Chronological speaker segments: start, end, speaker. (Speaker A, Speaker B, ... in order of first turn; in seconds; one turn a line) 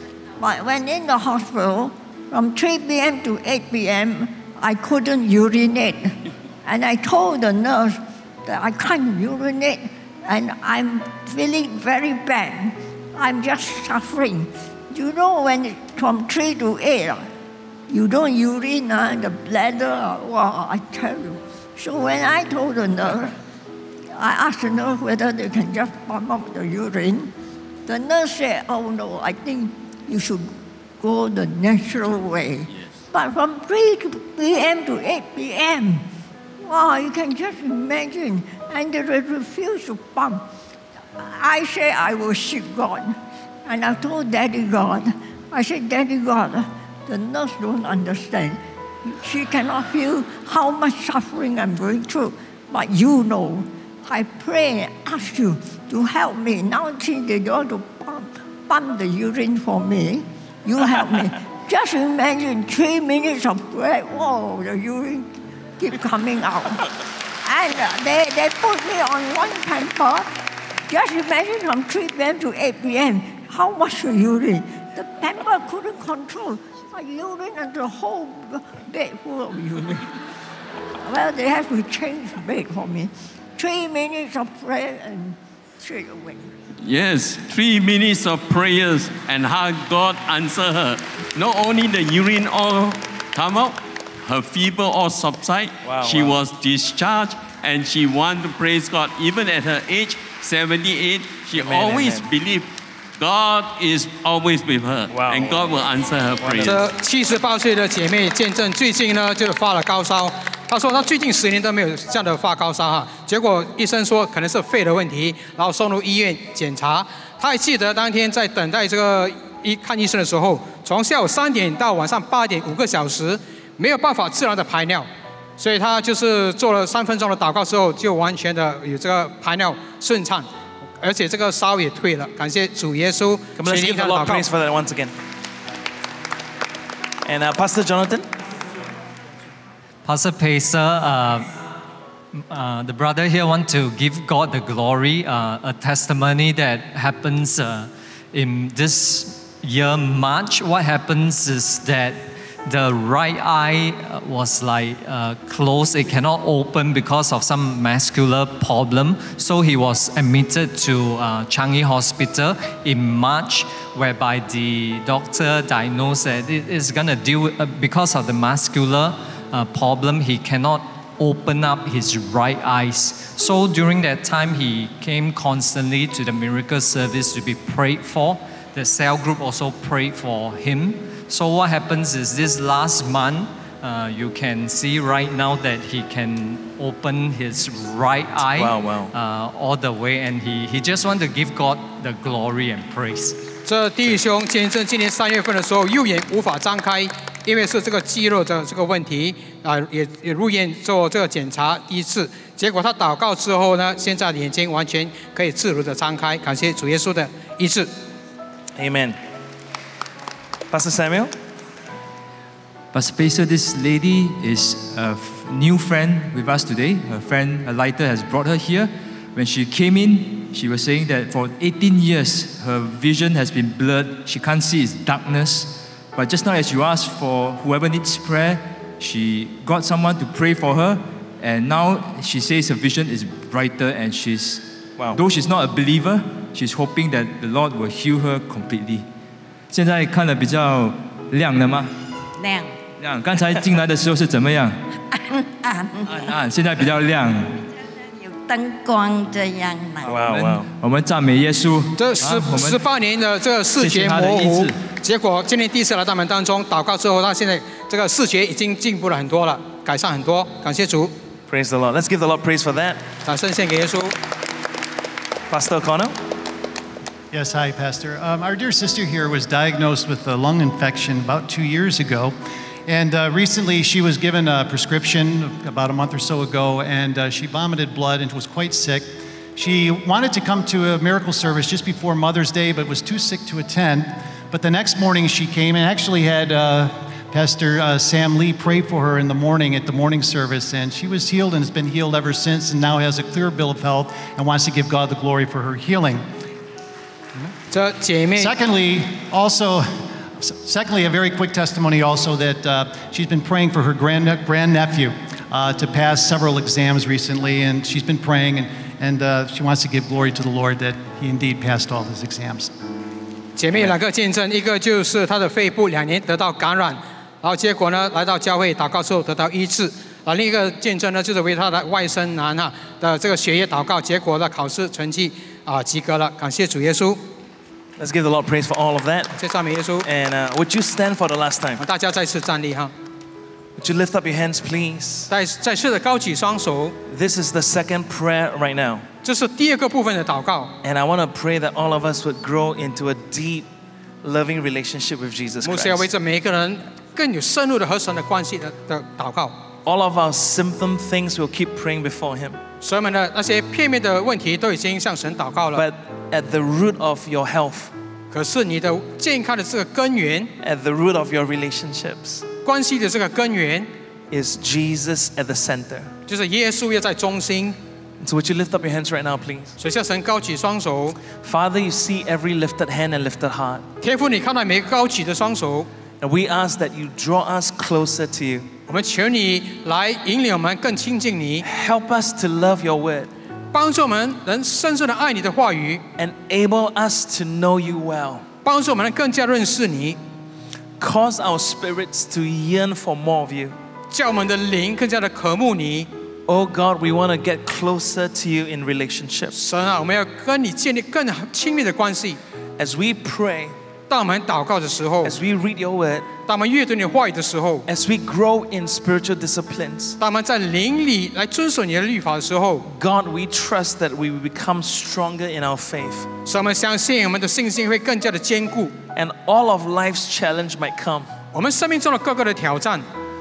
Speaker A: 0.4-17.3
Speaker A: 17.9-23.4
Speaker A: 24.1-27.3
Speaker A: 27.9-36.1
Speaker A: 36.6-40.4
Speaker A: 41.2-66.9
Speaker A: 67.4-70.3
Speaker A: 70.9-80.1
Speaker A: 81.0-86.5
Speaker B: 86.8-106.8
Speaker C: 95.8-96.4
Speaker C: 101.5-102.3
Speaker C: 105.1-105.7
Speaker C: 106.4-106.8
Speaker D: 106.6-130.5
Speaker D: 131.0-134.5
Speaker C: 133.6-135.1
Speaker C: 137.2-138.3
Speaker E: 140.0-141.5
Speaker E: 142.5-193.5
Speaker C: 188.5-189.1
Speaker D: 193.7-207.9
Speaker C: 208.8-209.2
Speaker C: 210.7-211.3
Speaker F: 212.9-239.1
Speaker F: 239.7-242.0
Speaker G: 242.4-242.8
Speaker F: 243.0-244.8
Speaker G: 245.5-246.3
Speaker F: 246.1-247.6
Speaker G: 248.0-250.1
Speaker C: 250.0-250.7
Speaker F: 250.1-252.8
Speaker D: 252.0-261.1
Speaker F: 253.8-254.8
Speaker C: 261.5-263.0
Speaker D: 263.2-264.1
Speaker C: 265.5-266.2
Speaker H: 267.3-272.3
Speaker H: 272.9-296.2
Speaker D: 297.7-298.5
Speaker H: 298.4-312.7
Speaker D: 313.6-327.2
Speaker C: 328.0-329.3
Speaker D: 329.4-330.1
Speaker C: 330.1-331.8
Speaker D: 331.8-332.9
Speaker C: 333.8-335.3
Speaker D: 335.3-337.0
Speaker C: 337.1-339.1
Speaker D: 339.2-340.7
Speaker C: 340.8-343.7
Speaker C: 344.2-346.1
Speaker D: 345.6-349.6
Speaker C: 349.9-352.6
Speaker D: 352.8-355.9
Speaker C: 355.8-357.9
Speaker D: 358.3-360.5
Speaker C: 360.6-362.5
Speaker D: 362.6-363.9
Speaker C: 364.3-366.1
Speaker D: 366.3-367.8
Speaker C: 368.2-369.7
Speaker D: 369.8-371.2
Speaker C: 371.3-373.8
Speaker D: 374.0-375.9
Speaker C: 376.2-378.7
Speaker D: 378.9-381.6
Speaker C: 381.6-383.3
Speaker D: 383.7-386.0
Speaker C: 386.2-388.5
Speaker D: 388.6-390.2
Speaker C: 391.0-393.8
Speaker D: 394.1-396.1
Speaker C: 396.5-399.5
Speaker D: 399.6-402.4
Speaker C: 402.8-403.8
Speaker D: 404.1-405.4
Speaker C: 405.2-406.3
Speaker D: 406.5-407.9
Speaker C: 407.9-410.2
Speaker D: 410.2-412.9
Speaker C: 412.9-416.3
Speaker D: 416.5-418.9
Speaker C: 419.1-421.3
Speaker D: 421.5-423.1